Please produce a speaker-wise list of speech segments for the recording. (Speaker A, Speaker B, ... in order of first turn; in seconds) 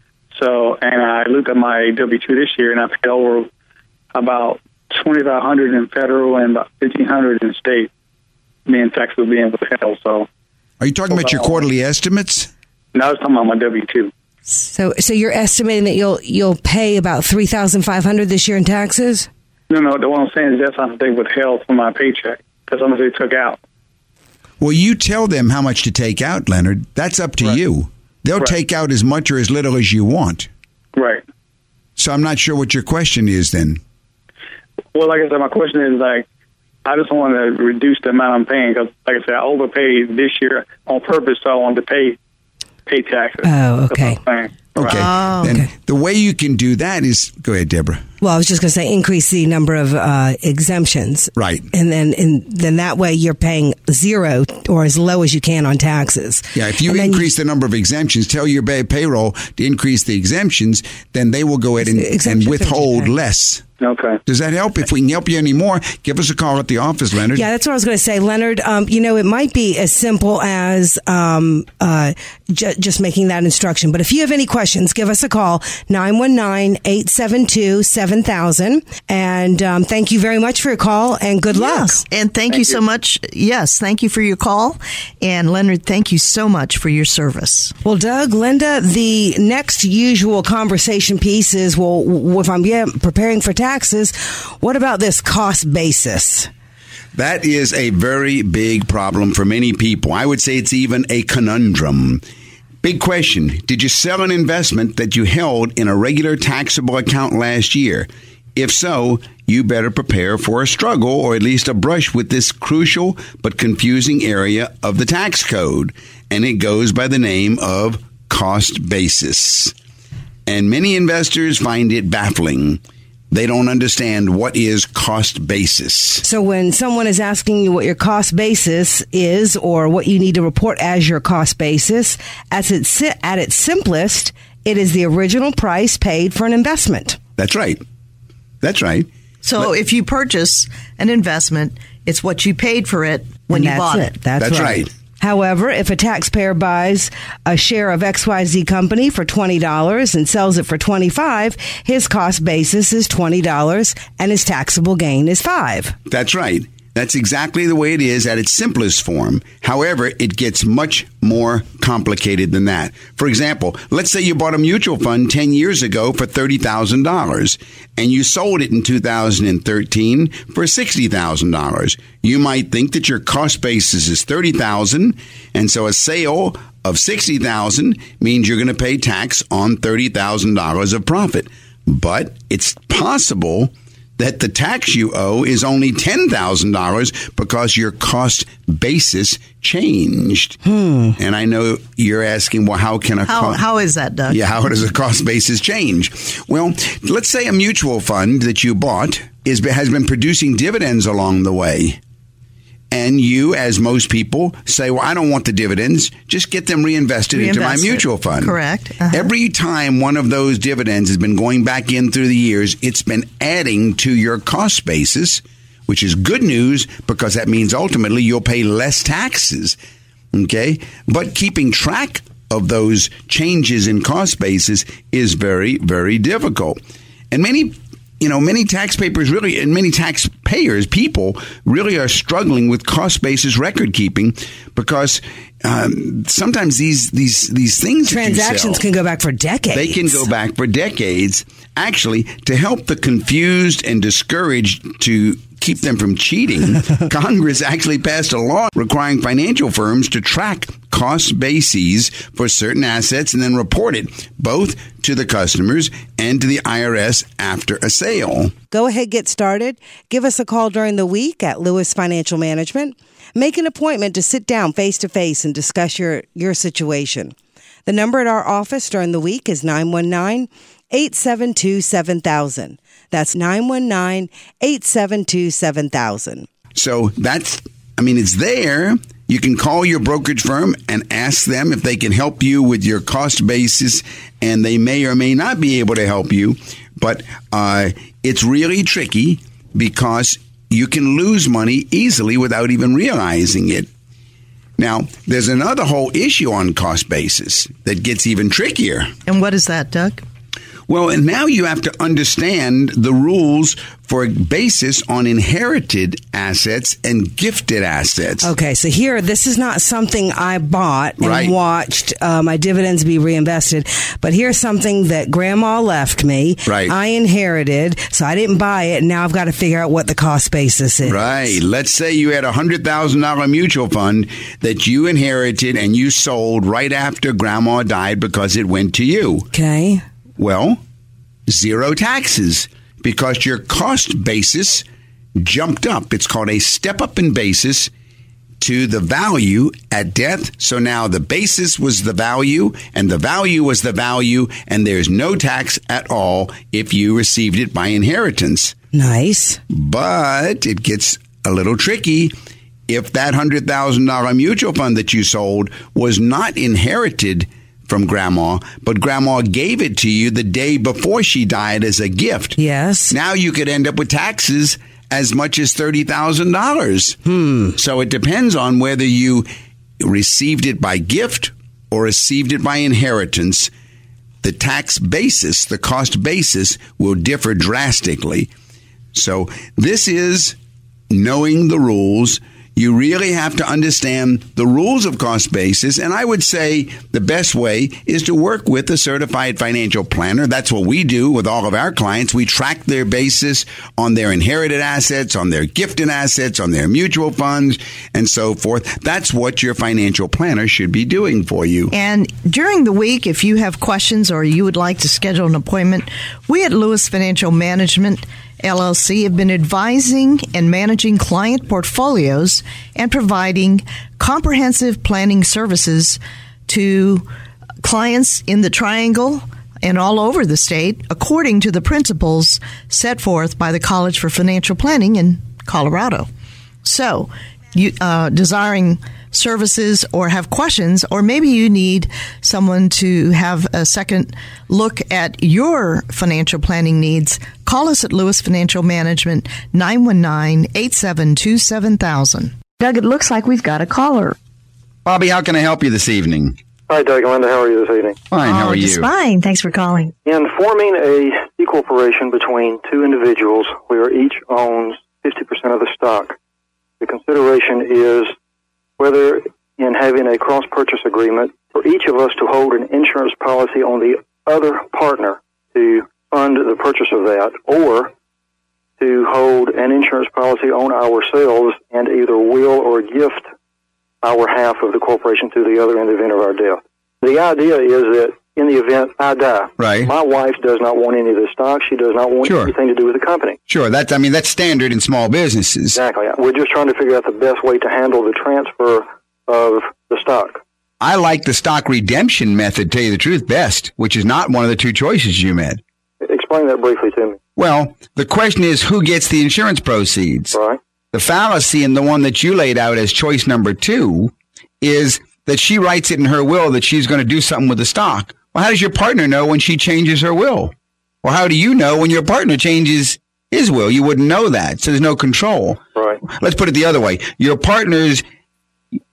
Speaker A: 0.3-3.5, 4.1-7.9, 8.7-10.3, 11.1-11.6, 12.9-14.1, 19.7-23.6, 30.9-31.2, 34.9-36.2, 36.8-42.2, 42.9-44.5, 63.8-64.2, 82.5-82.8
Speaker B: 10.8-12.5, 24.6-30.5, 32.0-33.8, 44.7-48.0, 51.4-51.7, 56.5-63.6, 64.2-67.5, 97.1-102.2, 102.8-119.7, 120.5-126.2, 137.4-137.8, 138.6-139.1, 144.4-144.9, 156.1-190.6, 191.2-193.6, 194.3-202.0, 202.9-208.6, 209.1-219.8, 220.3-226.8, 227.3-238.8, 239.7-258.5, 276.7-293.9, 294.8-299.1, 300.9-308.5, 311.2-311.6, 316.6-316.9, 321.0-329.5, 330.4-330.8, 331.5-337.9, 338.6-348.8, 349.7-352.3, 352.9-362.6, 363.1-367.2, 367.7-369.5, 370.0-373.7, 374.4-378.5, 379.1-380.6, 381.1-401.9, 445.0-446.6, 448.3-449.1, 479.8-480.1, 482.4-482.7, 483.7-486.0, 491.0-495.8, 497.6-500.6, 501.1-518.2
Speaker C: 14.5-19.3, 43.4-44.2, 48.2-57.3, 61.8-63.1, 67.3-82.0, 87.8-96.5, 126.2-137.2, 143.5-155.9, 190.6-191.2, 238.1-240.2, 258.7-267.3, 267.9-276.5, 308.4-321.3, 329.5-330.0, 348.9-349.6, 362.6-363.1, 367.2-367.7
Speaker D: 44.9-45.5, 81.5-87.7, 139.4-144.1, 193.2-194.4, 207.3-209.3, 299.2-300.2, 401.9-417.2, 417.8-426.3, 426.8-442.6
Speaker E: 442.8-444.4, 448.4-450.1
Speaker F: 446.9-448.2, 450.2-456.4, 457.0-458.3, 459.0-468.1, 469.0-473.4, 474.2-483.6, 485.9-490.6, 496.2-497.4, 500.5-500.8